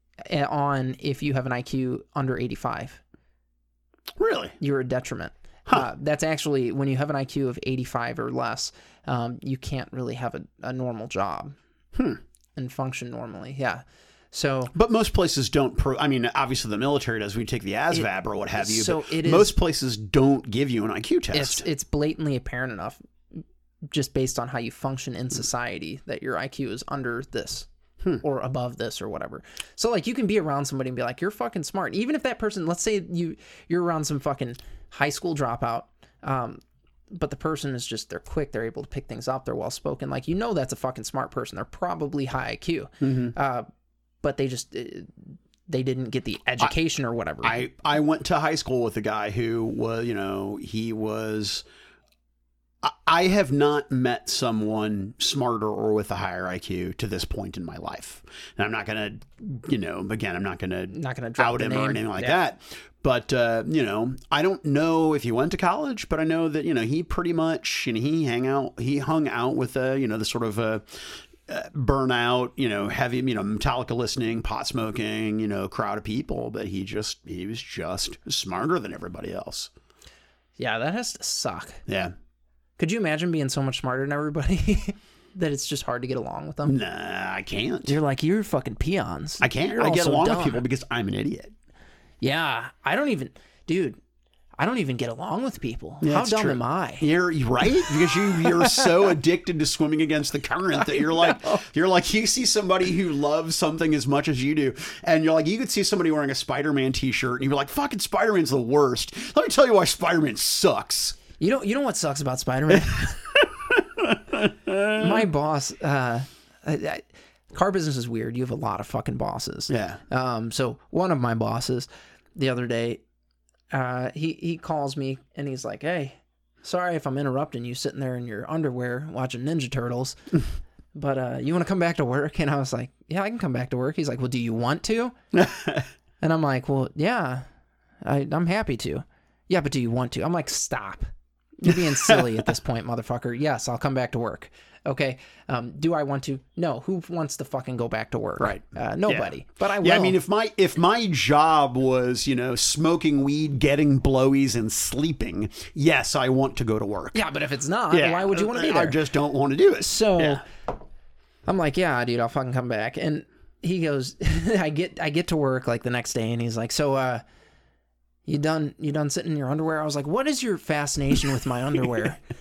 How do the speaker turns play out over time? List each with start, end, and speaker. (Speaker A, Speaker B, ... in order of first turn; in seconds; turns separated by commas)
Speaker A: 0.2-3.0, Speaker B: 4.2-4.6, Speaker A: 4.6-11.6, Speaker B: 11.9-12.2, Speaker A: 12.6-14.7, Speaker B: 14.7-21.6, Speaker A: 17.9-19.5, Speaker A: 21.3-27.7, Speaker A: 28.2-43.7, Speaker B: 43.0-43.4, Speaker A: 44.2-47.6, Speaker B: 47.4-51.6, Speaker B: 52.8-70.8, Speaker A: 60.9-62.4, Speaker B: 71.5-79.7, Speaker A: 80.6-81.8, Speaker B: 81.9-82.1, Speaker A: 82.8-86.8, Speaker B: 86.7-88.0, Speaker A: 87.9-90.6, Speaker B: 89.4-91.5, Speaker A: 92.2-94.0, Speaker A: 94.6-97.1, Speaker B: 96.0-111.2, Speaker A: 97.7-99.1, Speaker A: 100.8-101.6, Speaker A: 111.4-113.2, Speaker B: 113.4-115.2, Speaker A: 115.0-123.0, Speaker B: 119.7-120.0, Speaker A: 123.7-130.2, Speaker A: 130.9-135.2, Speaker B: 135.3-135.9, Speaker A: 136.2-137.4, Speaker A: 138.0-150.2, Speaker B: 141.7-142.4, Speaker B: 148.4-157.2, Speaker A: 157.1-159.0, Speaker B: 157.9-160.4, Speaker A: 159.8-160.4, Speaker A: 161.5-167.2, Speaker A: 168.3-172.2